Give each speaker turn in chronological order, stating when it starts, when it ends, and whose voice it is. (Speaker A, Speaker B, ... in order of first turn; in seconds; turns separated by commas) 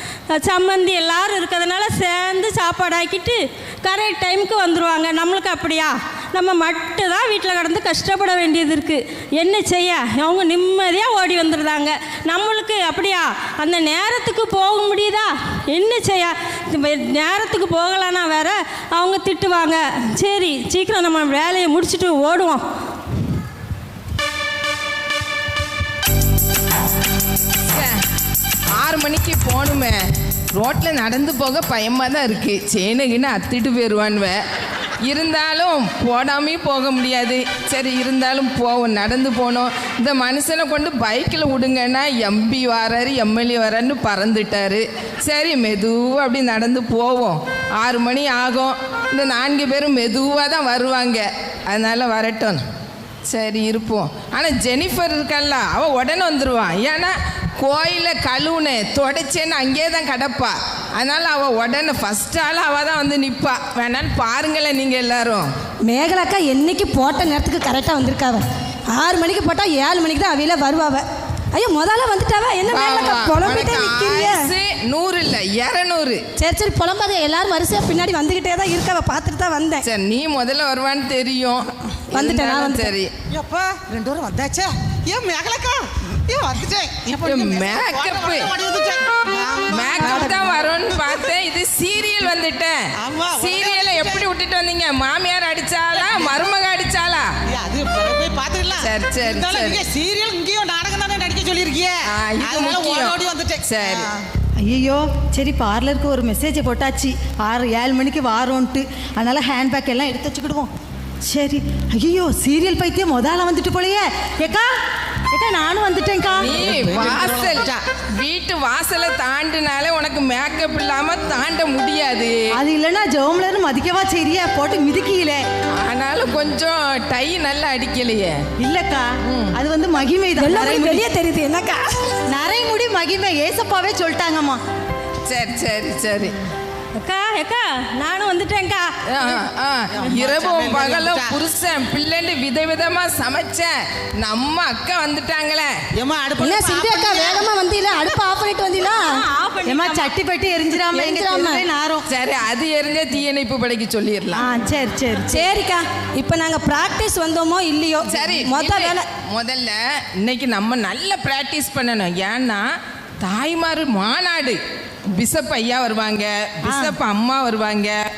Speaker A: 0.3-22.6, Speaker B: 27.7-28.0, Speaker B: 28.8-30.0, Speaker B: 30.5-34.4, Speaker B: 35.0-52.6, Speaker B: 53.2-65.5, Speaker C: 65.8-74.5, Speaker B: 72.7-76.2, Speaker C: 76.4-79.8, Speaker B: 79.8-83.1, Speaker C: 82.1-82.9, Speaker D: 83.3-90.6, Speaker B: 87.2-88.5, Speaker B: 89.7-97.3, Speaker D: 93.0-94.3, Speaker D: 95.9-96.4, Speaker D: 97.5-104.2, Speaker B: 98.8-99.8, Speaker B: 102.1-104.0, Speaker E: 104.6-110.7, Speaker E: 111.3-114.7, Speaker E: 115.3-117.4, Speaker B: 116.4-122.6, Speaker D: 116.5-117.8, Speaker E: 122.5-125.4, Speaker B: 125.8-128.3, Speaker E: 128.6-131.0, Speaker B: 129.2-129.6, Speaker C: 130.4-131.8, Speaker E: 132.3-134.6, Speaker B: 135.2-136.3, Speaker A: 137.0-139.3, Speaker B: 139.1-145.7, Speaker D: 139.9-141.4, Speaker D: 145.9-147.5, Speaker C: 146.4-149.2, Speaker A: 148.9-150.1, Speaker E: 149.7-152.1, Speaker C: 150.9-151.7, Speaker B: 152.1-154.4, Speaker E: 154.3-155.5, Speaker C: 155.3-159.1, Speaker B: 158.1-162.6, Speaker B: 163.2-164.6, Speaker B: 165.1-168.0, Speaker E: 166.6-167.0